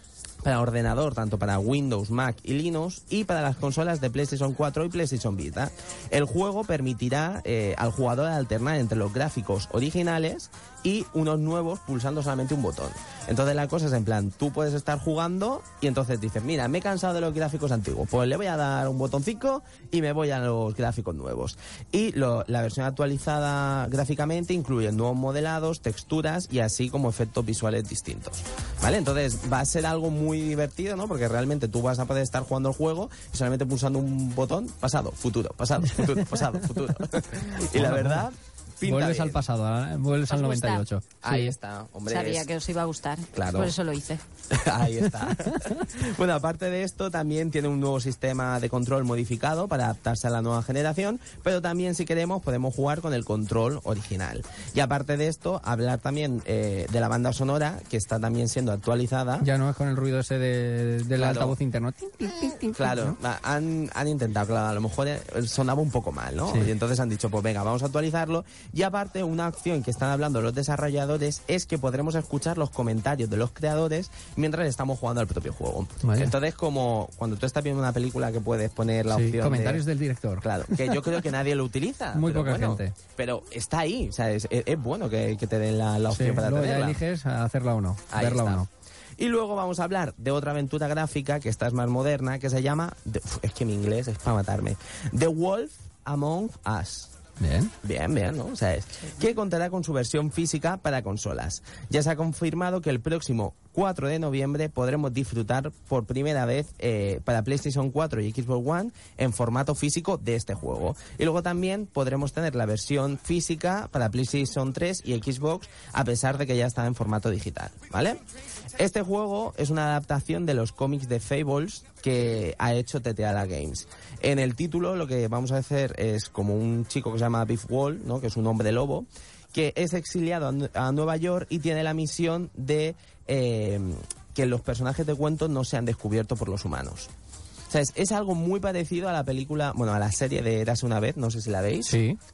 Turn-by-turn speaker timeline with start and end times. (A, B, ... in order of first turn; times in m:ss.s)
0:00.4-0:39.4 A
0:36.0-0:36.5 B
0:37.7-0:38.3 B
0:38.8-0:41.5 B
0:40.3-0:40.9 C
0:41.2-0:42.5 A
0:42.1-0:44.2 C
0:43.3-0:43.8 A
0:44.5-0:59.5 A
0:59.4-1:03.2 B
1:01.1-1:01.6 A
1:02.7-1:19.8 A
1:06.5-1:06.7 B
1:16.0-1:16.3 B
1:19.1-1:21.1 B
1:20.4-1:27.0 A
1:22.1-1:23.0 B
1:26.1-1:28.7 B
1:28.1-1:28.6 A
1:29.2-1:37.1 A
1:37.4-1:37.7 B
1:37.8-1:58.2 A
1:58.8-2:17.1 A
2:17.7-2:22.0 A
2:21.9-2:22.2 B